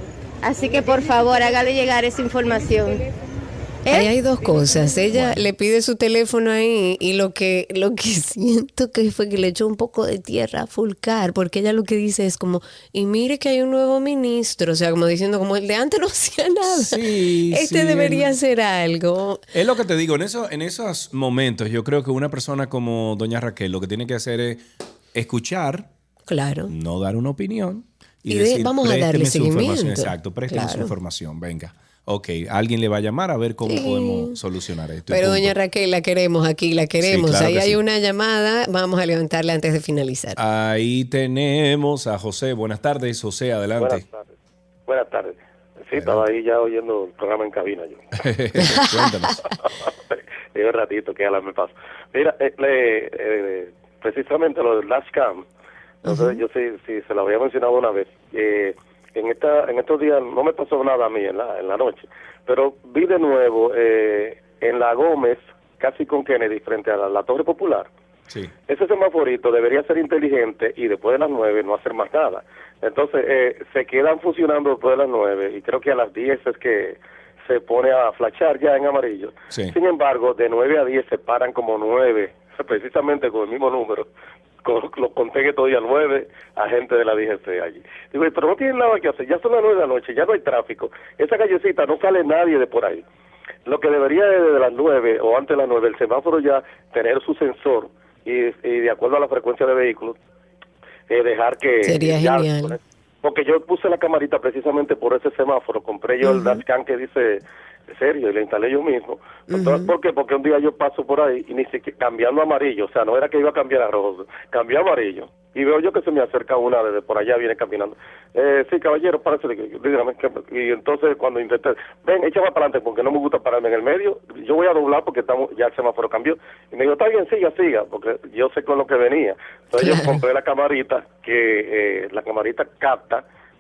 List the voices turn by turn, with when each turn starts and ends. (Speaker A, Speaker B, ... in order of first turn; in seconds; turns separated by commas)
Speaker A: 0.4-3.0, Speaker A: 3.9-4.1, Speaker B: 3.9-19.4, Speaker C: 5.1-5.5, Speaker C: 16.7-18.3, Speaker C: 19.5-24.6, Speaker C: 25.1-25.9, Speaker B: 26.3-26.7, Speaker C: 26.7-35.5, Speaker B: 28.3-30.9, Speaker B: 33.7-34.4, Speaker B: 35.1-40.4, Speaker C: 37.0-37.8, Speaker C: 40.4-44.0, Speaker D: 43.8-44.2, Speaker D: 44.9-48.1, Speaker C: 45.9-46.2, Speaker C: 48.2-49.4, Speaker B: 48.5-49.3, Speaker D: 50.1-55.4, Speaker B: 56.0-56.4, Speaker D: 56.1-67.9, Speaker D: 68.7-84.1, Speaker D: 84.7-93.0, Speaker D: 93.7-100.2, Speaker D: 101.1-133.2, Speaker B: 101.8-102.8, Speaker B: 106.2-106.6, Speaker B: 109.5-109.9, Speaker B: 129.8-130.2